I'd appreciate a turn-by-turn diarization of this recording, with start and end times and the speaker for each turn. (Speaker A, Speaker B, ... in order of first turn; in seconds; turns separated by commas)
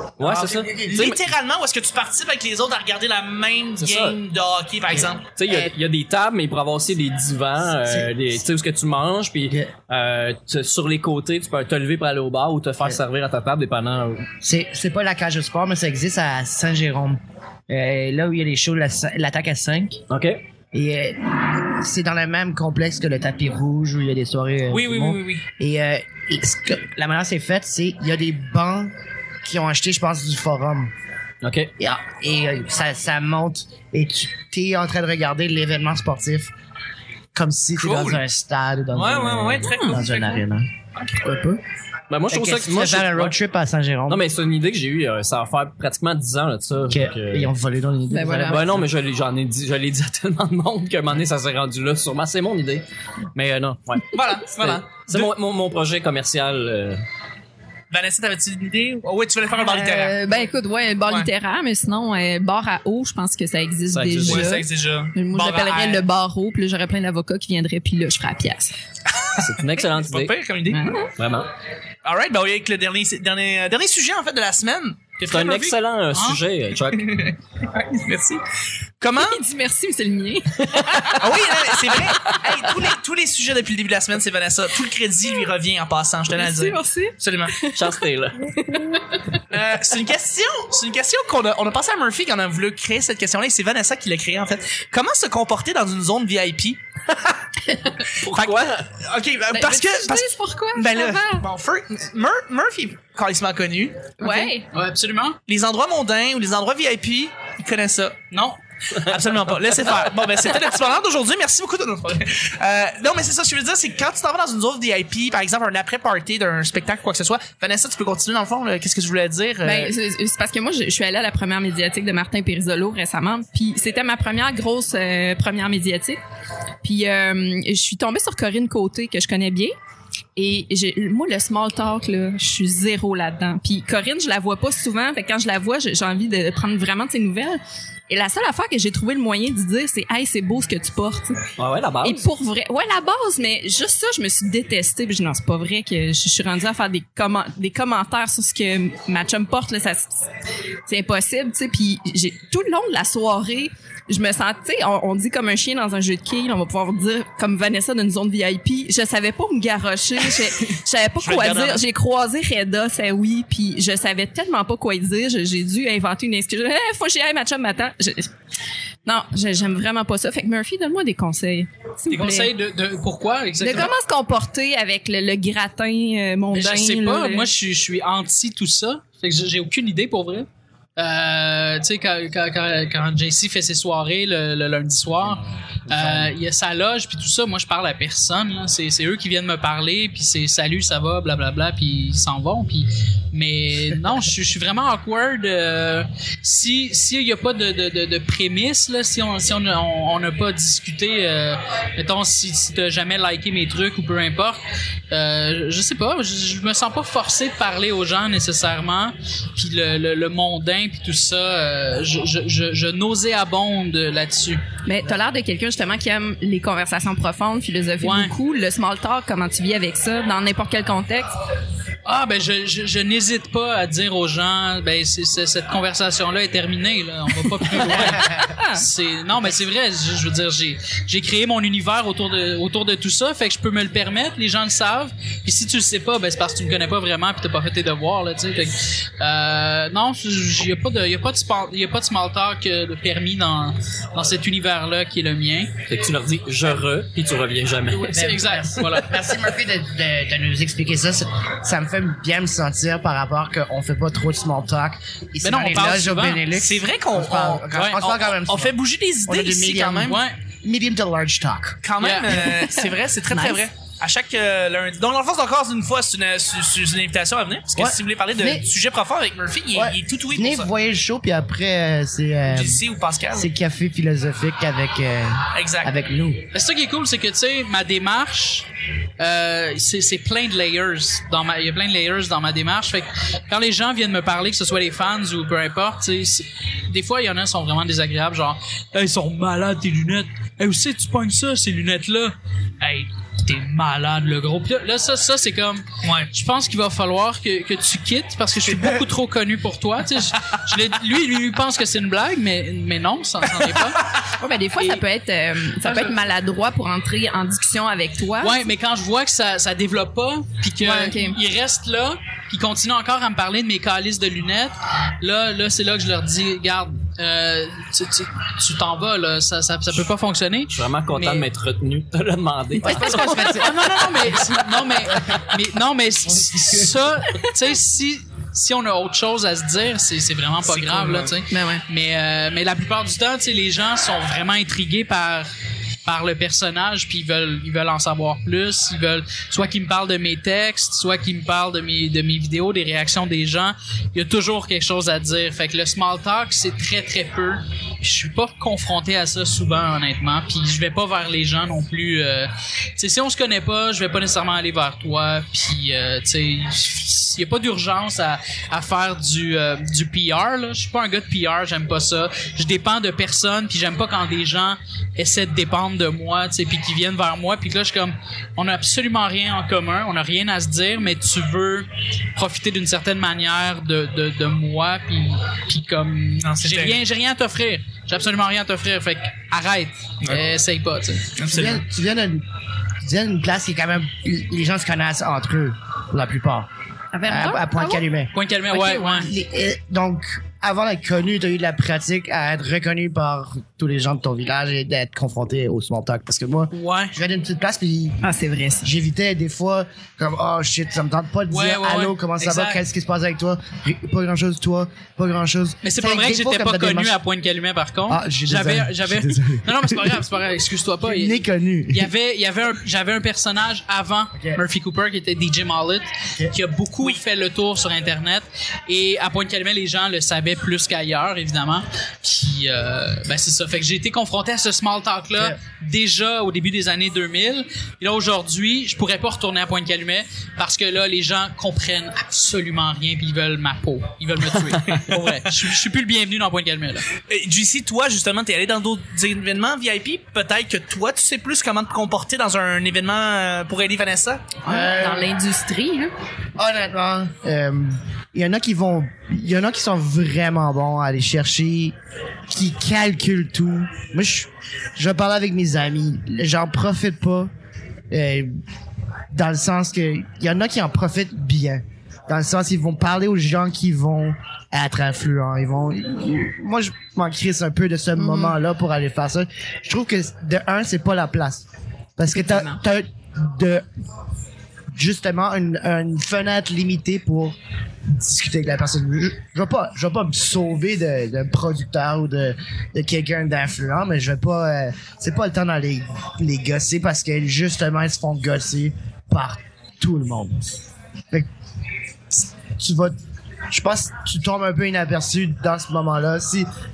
Speaker A: 0.2-1.2, Speaker B: 0.2-1.1, Speaker C: 0.8-5.3, Speaker A: 3.8-4.2, Speaker A: 5.3-14.3, Speaker B: 7.8-8.3, Speaker B: 14.4-20.0, Speaker A: 20.1-20.4, Speaker B: 20.7-28.9, Speaker C: 24.7-25.4, Speaker B: 29.4-30.9, Speaker A: 31.4-31.7, Speaker B: 31.8-36.5, Speaker B: 37.3-41.6, Speaker C: 37.8-38.2, Speaker C: 38.9-40.4, Speaker D: 39.6-40.0, Speaker A: 42.1-43.3, Speaker B: 42.3-44.2, Speaker A: 44.1-47.5, Speaker B: 46.9-48.9, Speaker D: 48.1-48.6, Speaker A: 48.4-57.0, Speaker C: 54.1-55.3, Speaker C: 57.9-60.2, Speaker D: 59.5-68.7, Speaker A: 63.9-64.5, Speaker C: 64.2-66.1, Speaker C: 69.1-71.0, Speaker A: 69.3-70.4, Speaker D: 70.7-71.1, Speaker A: 71.2-71.5, Speaker C: 72.0-75.0, Speaker E: 75.2-76.4, Speaker A: 75.3-77.2, Speaker C: 77.0-78.4, Speaker C: 79.0-79.4, Speaker D: 79.2-82.8, Speaker A: 80.7-81.1, Speaker C: 81.2-87.5, Speaker D: 86.3-88.0, Speaker A: 87.7-88.5, Speaker D: 88.5-89.2, Speaker C: 89.5-96.8, Speaker A: 98.2-98.9, Speaker C: 98.2-104.2, Speaker D: 99.5-101.5, Speaker D: 104.2-104.7, Speaker E: 104.2-105.4, Speaker C: 105.5-108.2, Speaker E: 108.3-108.6, Speaker C: 108.9-119.9, Speaker D: 119.6-126.2, Speaker D: 126.8-129.7, Speaker D: 130.3-141.4, Speaker A: 141.6-142.2, Speaker D: 142.0-150.2, Speaker D: 150.8-168.3, Speaker C: 161.2-161.8, Speaker D: 169.0-172.5, Speaker E: 172.1-173.9, Speaker D: 173.6-177.5, Speaker E: 176.5-204.6, Speaker A: 185.9-186.2, Speaker E: 205.1-214.6, Speaker D: 214.8-221.3, Speaker E: 218.0-218.3, Speaker E: 222.0-245.7, Speaker D: 228.0-228.8, Speaker A: 245.9-248.3, Speaker E: 247.9-249.2, Speaker B: 248.0-258.7, Speaker E: 255.4-256.5, Speaker C: 256.5-260.2, Speaker E: 257.7-258.0, Speaker B: 259.2-261.8, Speaker E: 260.0-260.4, Speaker C: 261.8-270.7, Speaker E: 262.0-262.5, Speaker D: 262.6-263.6, Speaker B: 267.8-268.6, Speaker B: 269.7-272.8, Speaker C: 272.5-273.5, Speaker B: 273.3-276.4, Speaker C: 275.5-275.9, Speaker E: 276.5-278.7, Speaker E: 279.2-304.1, Speaker C: 296.0-296.3, Speaker D: 304.3-308.6, Speaker E: 304.8-305.0, Speaker E: 305.8-306.1, Speaker E: 308.4-321.5, Speaker D: 310.8-311.4, Speaker A: 320.7-323.8, Speaker B: 322.8-323.8, Speaker E: 322.9-335.5, Speaker B: 325.1-325.4, Speaker B: 326.3-327.0, Speaker C: 330.7-331.3, Speaker D: 331.5-331.8, Speaker E: 336.0-381.4, Speaker C: 376.4-377.0, Speaker C: 381.4-381.8, Speaker B: 381.5-382.4, Speaker B: 383.0-386.7, Speaker D: 387.1-388.0, Speaker B: 387.2-388.3, Speaker E: 388.3-389.3, Speaker D: 388.7-389.3, Speaker B: 389.2-398.2, Speaker E: 396.7-397.1, Speaker D: 398.2-398.9, Speaker B: 398.8-407.2, Speaker E: 401.5-402.8, Speaker E: 405.8-437.0, Speaker B: 408.1-410.2, Speaker B: 411.0-412.1, Speaker B: 414.3-414.6, Speaker C: 435.0-435.4, Speaker C: 437.3-444.5, Speaker D: 444.6-446.1, Speaker B: 444.6-445.3, Speaker B: 446.6-451.9, Speaker B: 452.5-457.5, Speaker B: 458.1-458.5, Speaker B: 459.3-471.6, Speaker D: 468.2-468.6, Speaker B: 472.2-473.8, Speaker D: 472.3-472.8, Speaker B: 474.9-477.6, Speaker B: 478.1-490.7, Speaker B: 492.3-493.1, Speaker B: 493.7-496.7